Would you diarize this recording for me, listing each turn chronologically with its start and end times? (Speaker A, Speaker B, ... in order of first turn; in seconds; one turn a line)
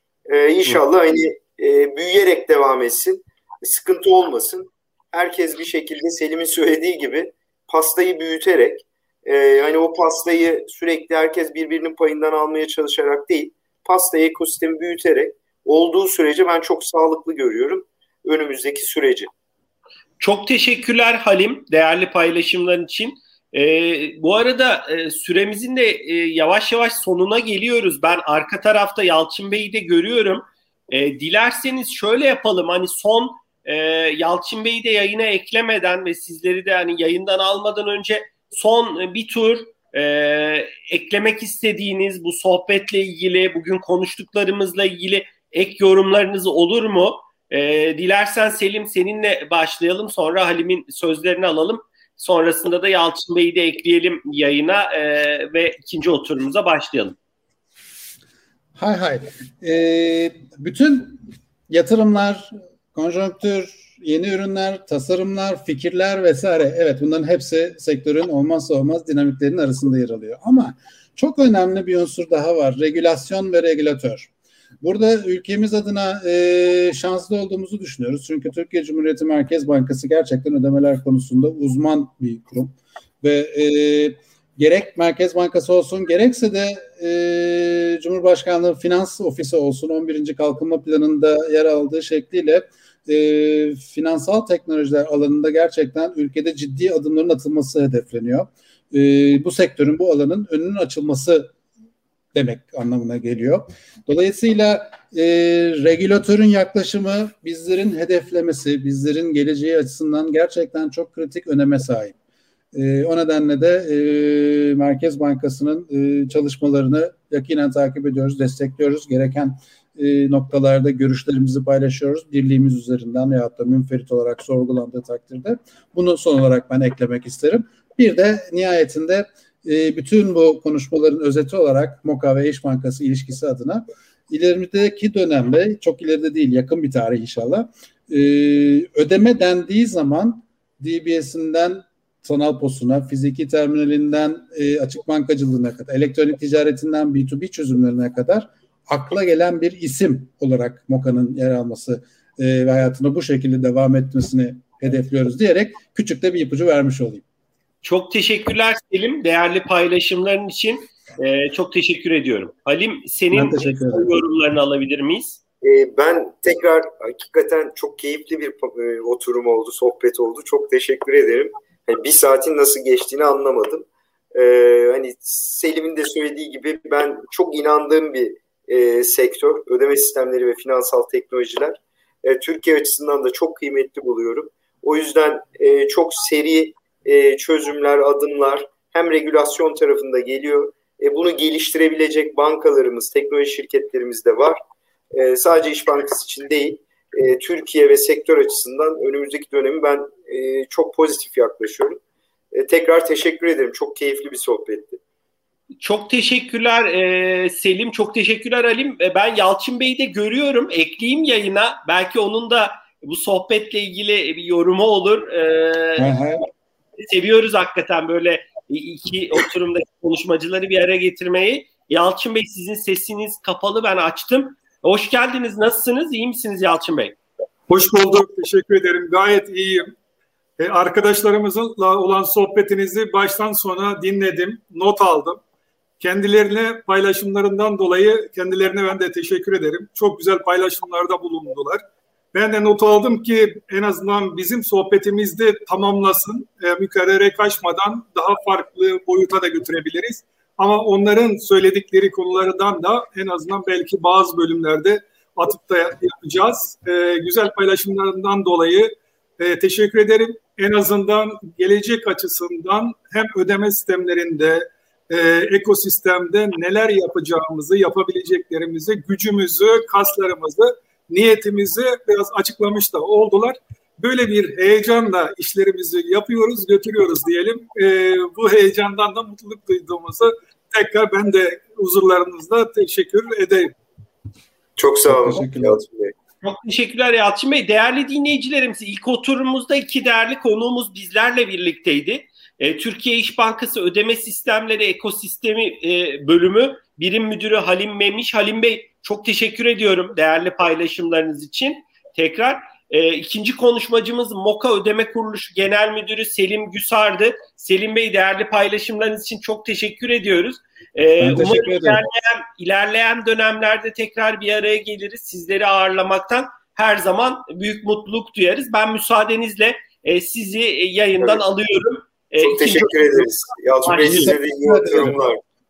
Speaker A: 0.3-19.3
Speaker B: 20.2-57.1
Speaker C: 58.8-61.2
Speaker C: 61.7-74.3
Speaker C: 74.8-101.5
Speaker C: 102.3-112.1
Speaker C: 112.7-157.2
Speaker B: 157.8-165.4
Speaker C: 163.3-164.1
Speaker A: 165.6-194.6
Speaker A: 195.1-202.0
Speaker A: 202.5-205.0
Speaker B: 205.8-216.3
Speaker C: 216.0-216.4
Speaker B: 217.0-227.2
Speaker D: 227.7-229.9
Speaker D: 230.6-235.4
Speaker D: 236.0-283.7
Speaker A: 284.8-286.1
Speaker C: 285.1-285.8
Speaker B: 286.4-323.3
Speaker C: 311.2-312.0
Speaker A: 322.4-325.4
Speaker B: 323.9-324.4
Speaker C: 324.0-325.2